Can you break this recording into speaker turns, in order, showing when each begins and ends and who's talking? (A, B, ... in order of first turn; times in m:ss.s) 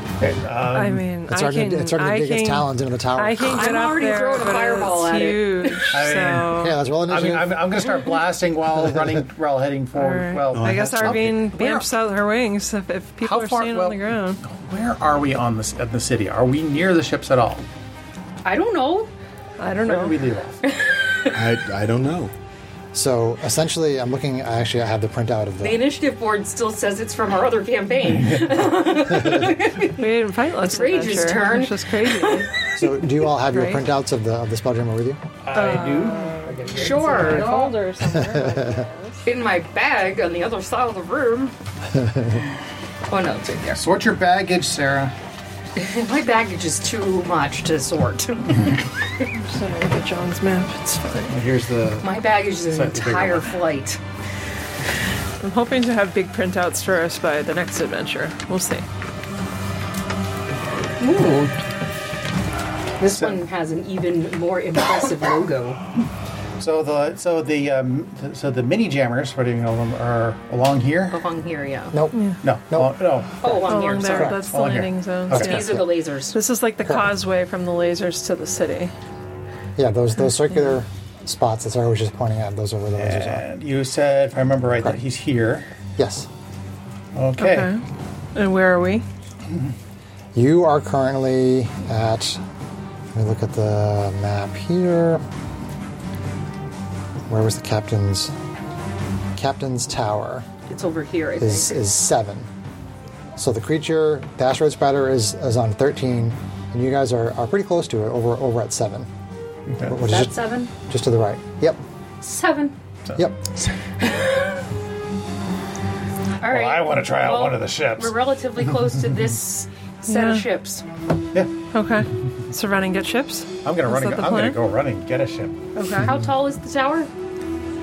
0:00.2-0:01.1 A
0:00.7-0:06.8 B
0:01.3-0:03.7 C
0:03.4-0:05.8 D
0:05.9-0:11.4 A
0:06.5-0:07.7 C
0:09.9-0:14.4 B
0:10.5-0:11.4 E
0:13.2-0:17.6 A
0:18.4-0:19.1 D
0:19.6-0:20.2 B
0:19.8-0:20.6 A
0:20.6-0:21.3 D
0:21.3-0:22.3 E
0:22.9-0:25.8 C
0:25.6-0:30.0 D
0:28.1-0:28.7 A
0:29.8-0:32.5 B
0:30.6-0:32.5 D
0:32.7-0:35.2 C
0:33.5-0:33.8 B
0:35.4-0:37.6 A
0:35.5-0:39.3 B
0:35.6-0:36.0 D
0:36.7-0:37.7 D
0:38.1-0:38.8 C
0:39.2-0:41.5 D
0:41.9-0:42.3 C
0:43.1-0:43.8 D
0:43.7-0:45.1 A
0:45.8-0:48.8 D
0:49.3-0:51.4 B
0:51.3-0:52.1 A
0:52.0-0:54.0 D
0:52.7-0:53.5 A
0:55.4-0:58.8 B
1:01.0-1:01.5 D
1:03.0-1:05.8 D
1:03.1-1:03.4 A
1:06.6-1:11.2 A
1:11.1-1:12.0 D
1:11.9-1:12.2 C
1:12.1-1:12.4 B
1:12.4-1:13.4 A
1:12.7-1:13.0 C
1:13.4-1:14.4 D
1:13.6-1:18.9 B
1:14.2-1:14.4 C
1:14.4-1:15.6 A
1:15.3-1:16.3 D
1:15.5-1:15.8 C
1:16.8-1:17.1 C
1:19.8-1:23.4 C
1:23.0-1:25.7 A
1:26.0-1:26.3 C
1:27.1-1:27.7 A
1:27.4-1:27.8 B
1:28.3-1:29.0 B
1:30.3-1:32.4 C
1:33.1-1:35.2 C
1:37.3-1:38.3 C
1:39.4-1:40.5 C
1:40.7-1:41.8 D
1:41.4-1:42.5 C
1:43.4-1:49.1 C
1:49.7-1:50.0 A
1:49.8-1:51.8 C
1:50.1-1:50.7 D
1:52.2-1:52.8 D
1:53.1-1:53.4 C
1:54.0-1:54.5 D
1:56.4-2:00.8 D
1:56.4-1:58.2 A
2:00.1-2:00.5 B
2:01.7-2:04.6 B
2:03.6-2:05.6 A
2:05.7-2:06.1 B
2:06.0-2:07.1 D